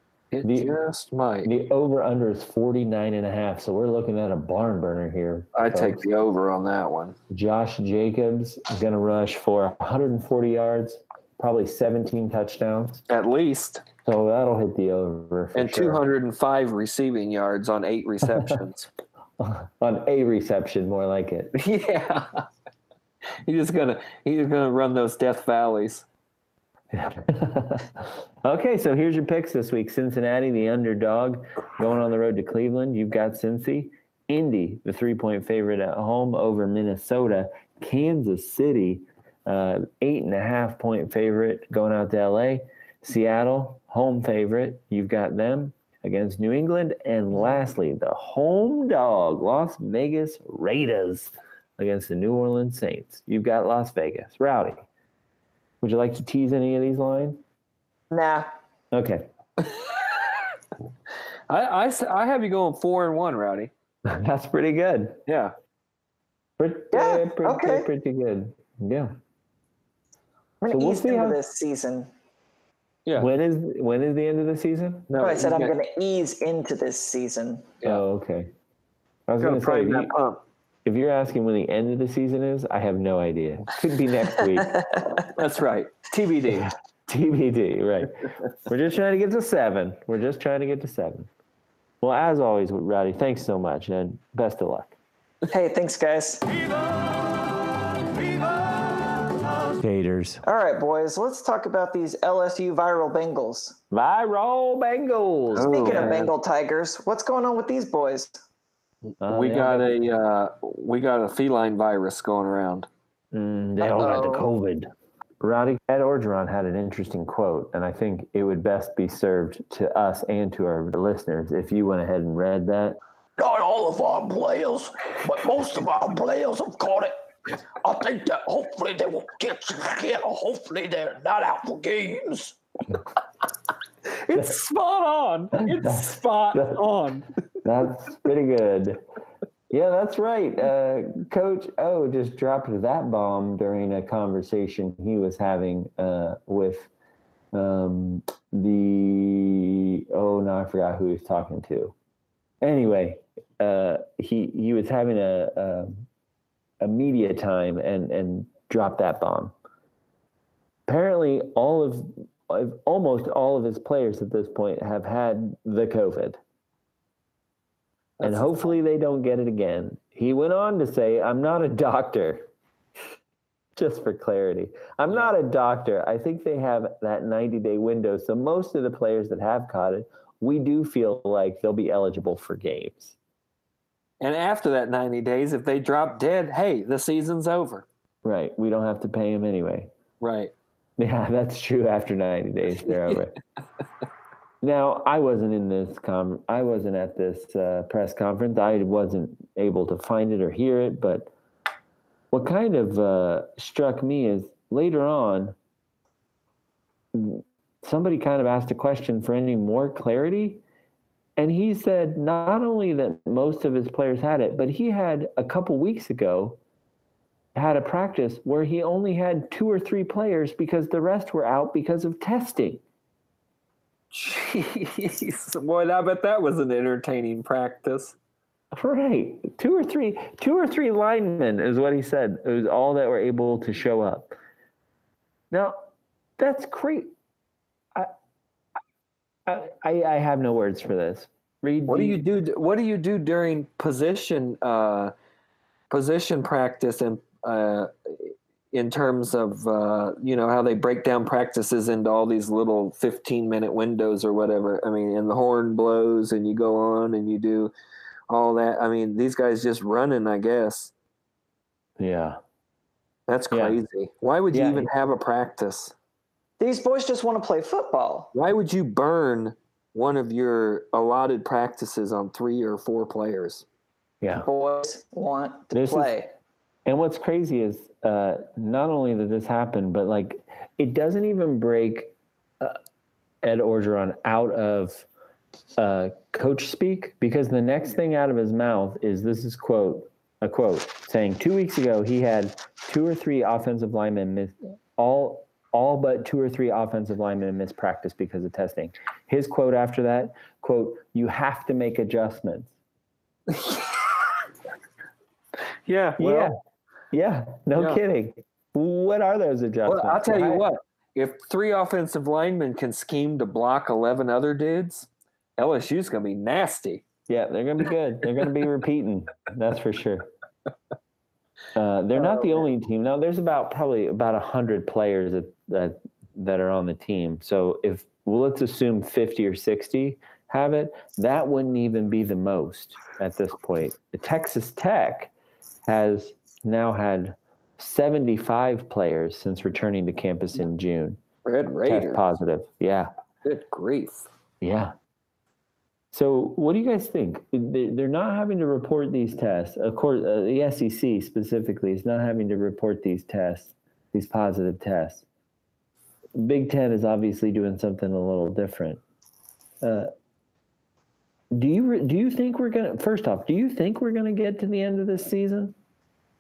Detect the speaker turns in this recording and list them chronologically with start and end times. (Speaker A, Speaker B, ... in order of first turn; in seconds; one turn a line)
Speaker A: 0.3-1.5
Speaker B: 0.4-0.7
Speaker B: 1.4-6.0
Speaker A: 5.5-7.2
Speaker B: 7.3-13.0
Speaker A: 13.1-13.8
Speaker B: 14.0-16.0
Speaker A: 15.5-18.9
Speaker B: 18.3-18.5
Speaker B: 19.4-21.5
Speaker A: 21.5-22.4
Speaker A: 23.4-26.1
Speaker B: 26.9-54.8
Speaker B: 55.8-57.4
Speaker C: 58.1-58.5
Speaker B: 58.9-59.3
Speaker A: 59.6-60.3
Speaker A: 61.5-63.7
Speaker B: 64.0-65.2
Speaker A: 65.3-65.5
Speaker B: 66.6-69.1
Speaker C: 66.9-67.9
Speaker C: 70.6-72.1
Speaker B: 70.7-71.4
Speaker B: 73.2-75.1
Speaker A: 75.1-75.7
Speaker C: 75.2-77.7
Speaker B: 77.8-78.5
Speaker B: 79.3-80.1
Speaker A: 79.4-80.4
Speaker B: 80.8-84.8
Speaker A: 85.2-86.7
Speaker B: 86.5-91.3
Speaker B: 92.0-95.0
Speaker C: 95.5-96.5
Speaker B: 99.8-100.4
Speaker C: 100.4-103.8
Speaker B: 103.9-106.3
Speaker A: 105.5-106.3
Speaker C: 105.6-108.4
Speaker A: 109.2-112.9
Speaker B: 109.2-109.9
Speaker B: 113.3-123.0
Speaker C: 113.8-114.5
Speaker D: 123.4-127.1
Speaker D: 127.8-132.6
Speaker A: 134.1-137.3
Speaker B: 135.6-136.8
Speaker B: 137.6-139.0
Speaker B: 139.7-146.9
Speaker B: 147.5-151.9
Speaker B: 152.6-156.0
Speaker B: 156.8-159.5
Speaker B: 160.9-166.4
Speaker A: 168.2-168.5
Speaker B: 168.2-172.4
Speaker B: 173.8-183.2
Speaker A: 184.2-187.8
Speaker B: 188.2-189.9
Speaker A: 190.2-190.5
Speaker B: 191.0-193.3
Speaker B: 194.6-201.3
Speaker B: 202.3-205.6
Speaker B: 207.1-210.6
Speaker B: 211.4-216.6
Speaker B: 217.5-222.8
Speaker A: 224.1-228.1
Speaker B: 228.7-234.3
Speaker B: 235.5-235.8
Speaker B: 236.4-237.1
Speaker B: 239.4-242.2
Speaker A: 241.9-245.1
Speaker A: 245.9-257.7
Speaker A: 258.3-260.9
Speaker B: 262.0-262.4
Speaker A: 263.3-265.9
Speaker B: 263.5-263.8
Speaker B: 264.5-264.9
Speaker C: 266.6-268.3
Speaker A: 268.3-273.6
Speaker B: 274.2-274.5
Speaker C: 274.4-276.3
Speaker B: 275.7-276.1
Speaker B: 276.9-282.8
Speaker B: 283.4-285.1
Speaker B: 285.8-302.7
Speaker A: 303.5-304.1
Speaker A: 305.9-306.5
Speaker B: 306.2-306.5
Speaker B: 307.1-310.6
Speaker A: 307.8-308.0
Speaker A: 309.9-317.0
Speaker B: 317.3-320.3
Speaker B: 321.8-335.3
Speaker A: 322.2-322.6
Speaker B: 335.9-341.2
Speaker A: 341.4-342.2
Speaker B: 341.9-343.1
Speaker A: 343.4-344.3
Speaker B: 344.6-344.9
Speaker B: 346.1-355.2
Speaker B: 356.3-359.0
Speaker B: 359.8-360.1
Speaker B: 361.5-365.7